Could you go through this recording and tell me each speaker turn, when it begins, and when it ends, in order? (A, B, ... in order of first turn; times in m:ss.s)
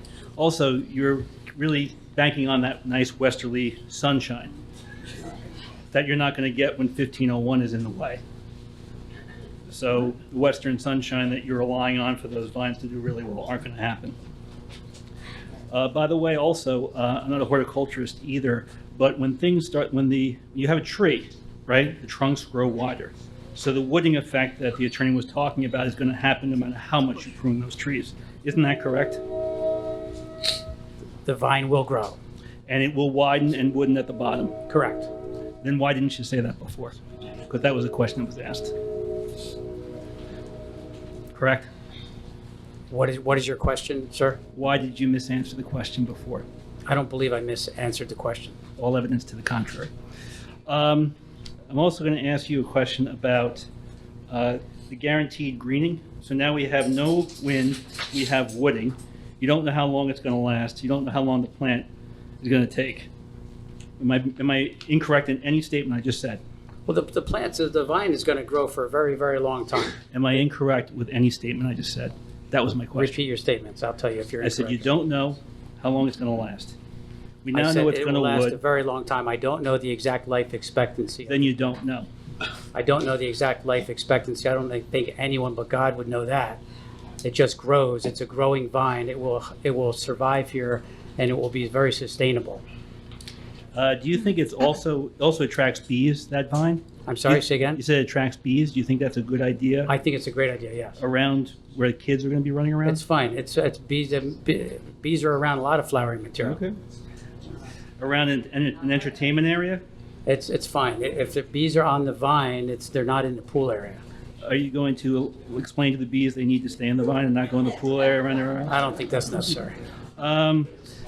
0:00.4-0:04.5 A
0:05.9-0:08.2 A
0:09.7-0:14.2 A
0:15.7-0:29.2 A
0:31.2-0:32.2 B
0:32.7-0:34.6 A
0:34.7-0:35.1 B
0:35.6-0:37.0 A
0:37.5-0:38.7 A
0:41.3-0:41.7 A
0:42.9-0:44.4 B
0:44.6-0:46.5 A
0:46.9-0:48.6 B
0:48.8-0:49.9 A
0:50.7-0:51.2 A
0:51.7-0:53.7 A
0:54.3-1:01.9 A
1:02.4-1:03.1 A
1:04.0-1:06.4 A
1:06.9-1:10.0 B
1:10.1-1:13.2 A
1:13.0-1:14.9 B
1:14.4-1:16.8 A
1:17.4-1:18.6 A
1:17.5-1:21.8 B
1:21.3-1:22.1 A
1:22.7-1:26.6 B
1:27.2-1:32.6 B
1:33.7-1:39.9 A
1:37.1-1:37.8 B
1:39.9-1:41.0 B
1:41.0-1:43.0 A
1:42.9-1:46.6 B
1:46.4-1:46.8 A
1:48.0-1:49.8 A
1:50.3-1:54.0 B
1:54.4-1:58.8 A
1:58.7-1:59.8 B
2:00.2-2:00.7 A